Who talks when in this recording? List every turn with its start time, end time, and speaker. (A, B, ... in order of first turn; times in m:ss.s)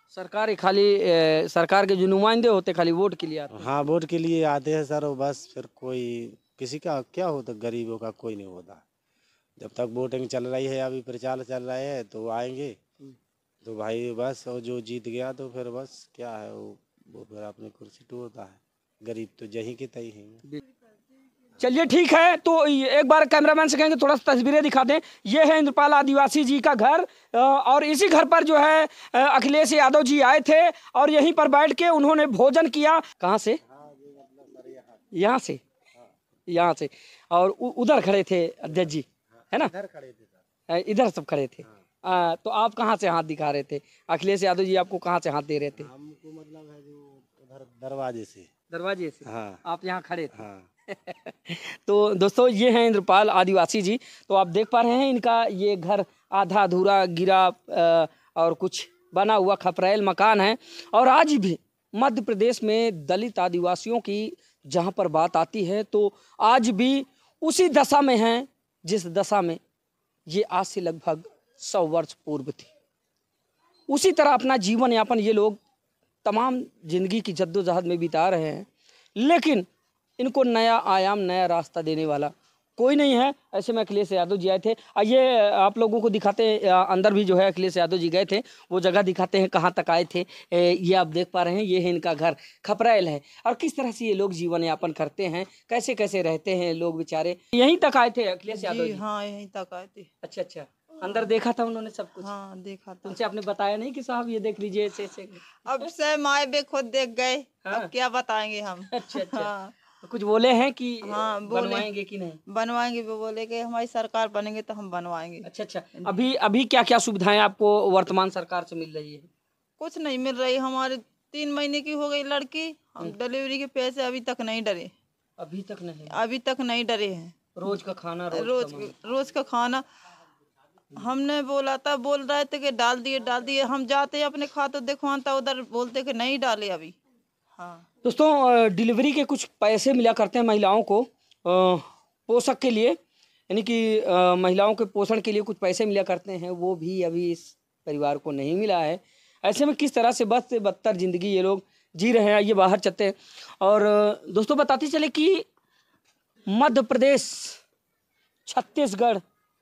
0:00.1-0:03.7 A
0:03.5-0:08.8 B
0:09.6-0:12.8 B
0:13.6-0:20.4 B
0:21.6-0:33.6 A
0:33.6-0:35.0 B
0:35.1-0:35.6 A
0:36.5-0:39.7 A
0:39.4-0:40.4 B
0:40.7-0:45.9 A
0:45.8-0:48.5 B
0:48.7-0:50.4 A
0:49.3-0:49.6 B
0:50.3-0:50.7 B
0:50.9-1:09.6 A
1:10.3-1:12.7 A
1:13.9-1:15.6 A
1:16.2-1:19.7 A
1:20.2-1:39.0 A
1:38.5-1:40.1 C
1:40.2-1:42.3 A
1:41.0-1:41.3 C
1:42.2-1:43.2 C
1:43.0-1:45.8 A
1:45.6-1:49.8 C
1:48.9-1:49.5 A
1:50.0-1:52.4 A
1:51.0-1:51.9 C
1:52.5-1:56.2 C
1:55.4-1:59.3 A
1:59.8-2:04.9 C
2:05.4-2:06.2 A
2:06.1-2:07.4 C
2:07.6-2:08.9 A
2:08.3-2:09.8 C
2:10.9-2:17.0 C
2:17.6-2:17.8 C
2:18.0-2:23.0 A
2:23.5-2:35.5 A
2:36.5-2:37.6 A
2:38.5-2:39.2 A